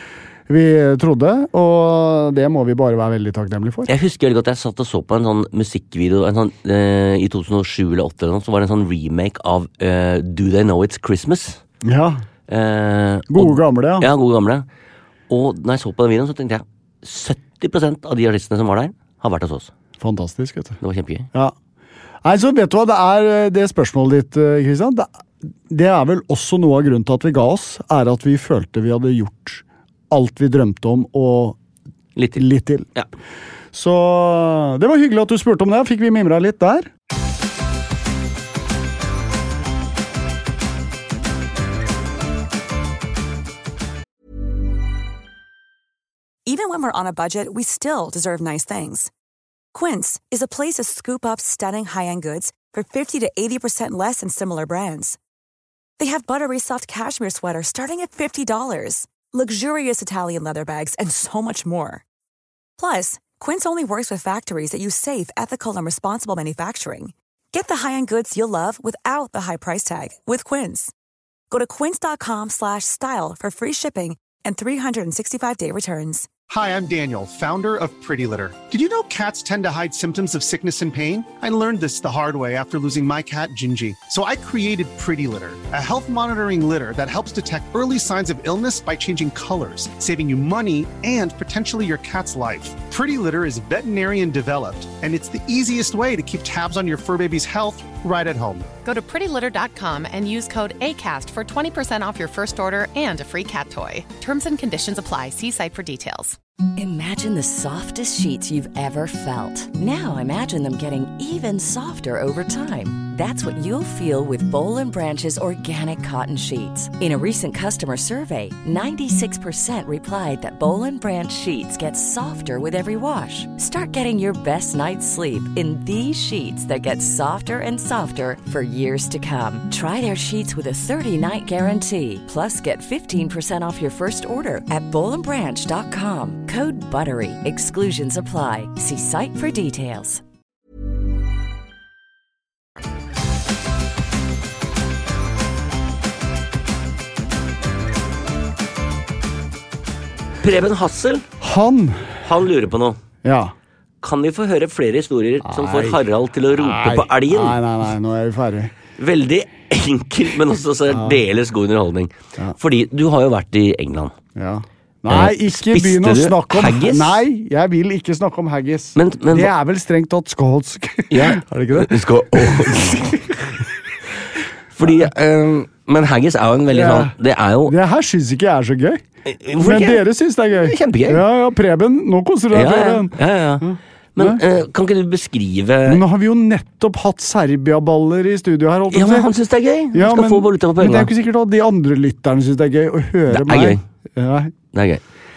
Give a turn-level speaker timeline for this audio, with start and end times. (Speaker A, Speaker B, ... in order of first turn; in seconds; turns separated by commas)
Speaker A: 0.5-3.9, Speaker B: 3.9-11.6, Speaker A: 11.8-12.2, Speaker B: 12.5-14.7, Speaker A: 13.3-14.1, Speaker B: 15.3-19.7, Speaker A: 20.0-20.8, Speaker B: 20.8-21.3, Speaker A: 22.2-25.1, Speaker A: 25.7-31.6, Speaker B: 32.2-32.5, Speaker A: 32.4-32.9, Speaker A: 33.7-36.9, Speaker C: 46.5-49.1, Speaker C: 49.7-55.2, Speaker C: 56.0-62.0, Speaker C: 62.8-70.9, Speaker C: 71.5-76.3, Speaker D: 76.5-98.7, Speaker E: 98.8-106.4, Speaker F: 106.8-140.2, Speaker B: 150.4-151.3, Speaker A: 151.4-152.2, Speaker B: 152.2-153.0, Speaker A: 153.2-153.5, Speaker B: 154.0-157.6, Speaker A: 155.4-156.0, Speaker A: 156.5-158.7, Speaker B: 159.0-164.2, Speaker A: 160.9-161.2, Speaker A: 164.4-173.3, Speaker B: 165.1-167.2, Speaker B: 169.0-169.5, Speaker B: 171.1-173.2, Speaker B: 174.8-177.8, Speaker A: 176.7-177.1, Speaker A: 177.7-179.0, Speaker B: 179.3-181.2, Speaker A: 179.6-184.4, Speaker B: 182.5-186.0, Speaker A: 185.9-189.3, Speaker B: 188.9-191.1, Speaker A: 189.9-194.5, Speaker B: 193.3-193.8, Speaker B: 194.7-195.0